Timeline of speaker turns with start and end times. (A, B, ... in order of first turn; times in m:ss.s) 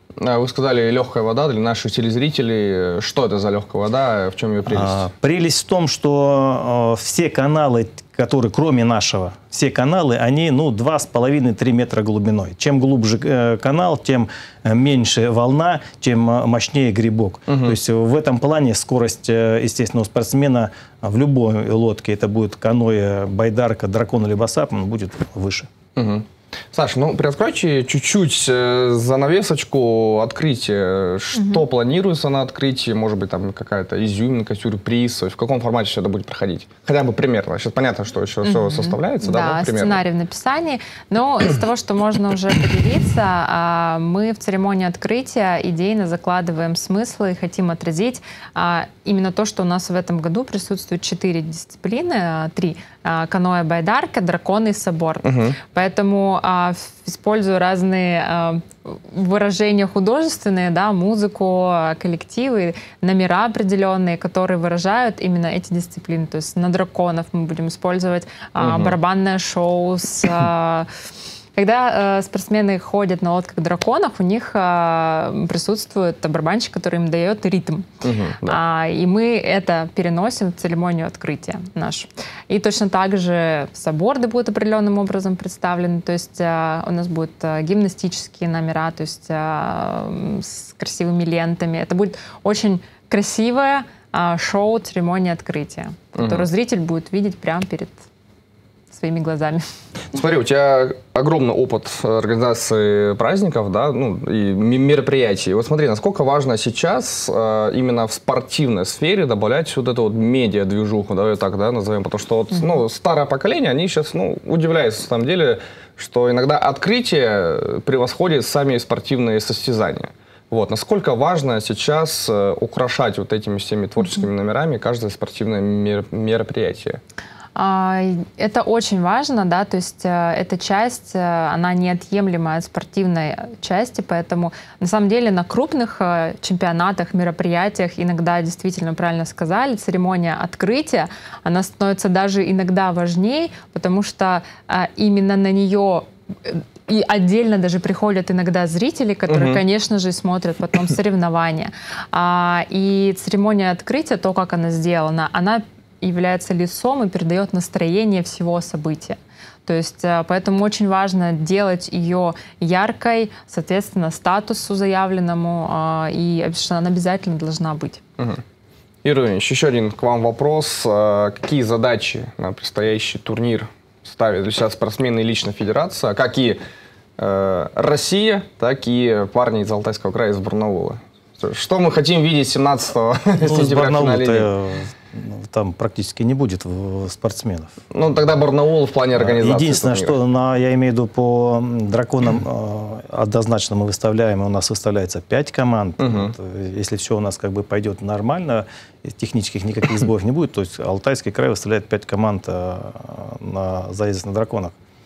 0:00.2-0:05.0 A
0:04.7-0:25.7 B
0:17.5-0:17.8 A
0:26.0-0:40.0 A
0:31.3-0:31.6 C
0:38.4-1:10.9 C
0:55.2-0:55.6 A
1:08.6-1:08.9 A
1:11.5-1:17.9 C
1:18.0-1:18.6 A
1:18.4-1:38.0 C
1:36.2-1:36.5 A
1:38.9-1:39.6 C
1:40.1-2:07.0 A
2:07.5-2:48.0 C
2:29.3-2:29.6 A
2:49.0-2:56.6 A
2:57.2-3:04.5 A
3:03.4-3:07.7 B
3:07.9-3:10.2 A
3:09.2-3:24.7 B
3:16.0-3:16.3 A